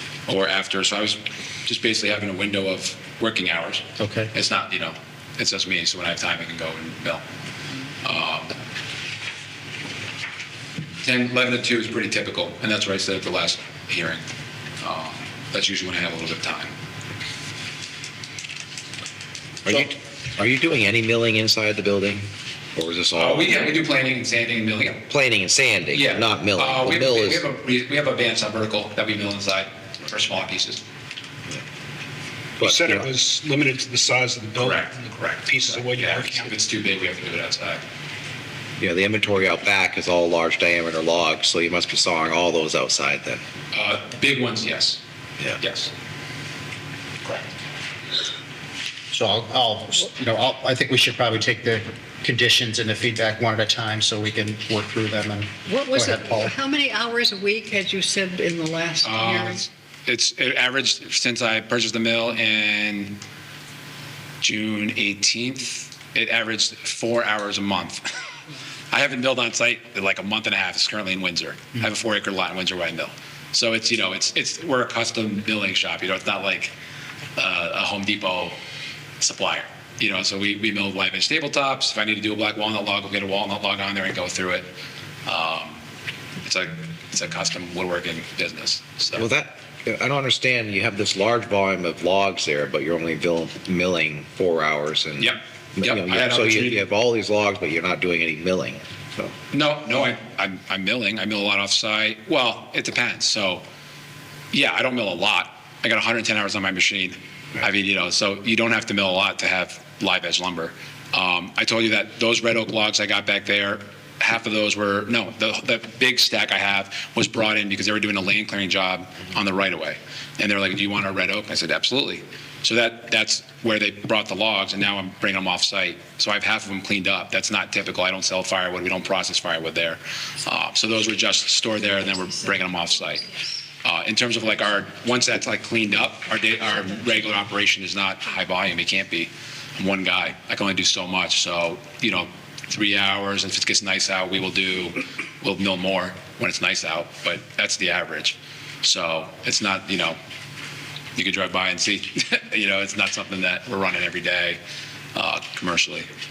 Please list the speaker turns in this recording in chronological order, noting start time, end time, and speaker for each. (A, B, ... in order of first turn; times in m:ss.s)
0:00.3-0:07.2 A
0:04.0-0:04.3 B
0:08.0-0:08.5 A
0:11.0-0:14.2 A
0:14.8-0:16.7 A
0:19.6-0:23.4 C
0:23.2-0:25.1 A
0:25.1-0:27.5 C
0:25.9-0:30.8 A
0:32.6-0:36.6 D
0:32.6-0:33.1 C
0:34.6-0:37.8 A
0:38.8-0:43.4 C
0:43.7-0:45.0 A
0:45.6-0:45.9 A
0:49.1-0:56.5 B
0:55.7-0:59.6 E
0:59.0-1:03.2 A
1:04.4-1:08.1 A
1:08.9-1:16.7 A
1:17.4-1:18.6 A
1:19.2-1:24.7 A
1:25.3-1:25.8 A
1:26.4-1:29.3 A
1:29.2-1:39.3 C
1:35.2-1:36.8 A
1:39.5-1:43.6 A
1:44.5-2:13.2 A
2:13.8-2:30.2 A
2:31.2-2:34.6 A
2:35.2-2:36.1 A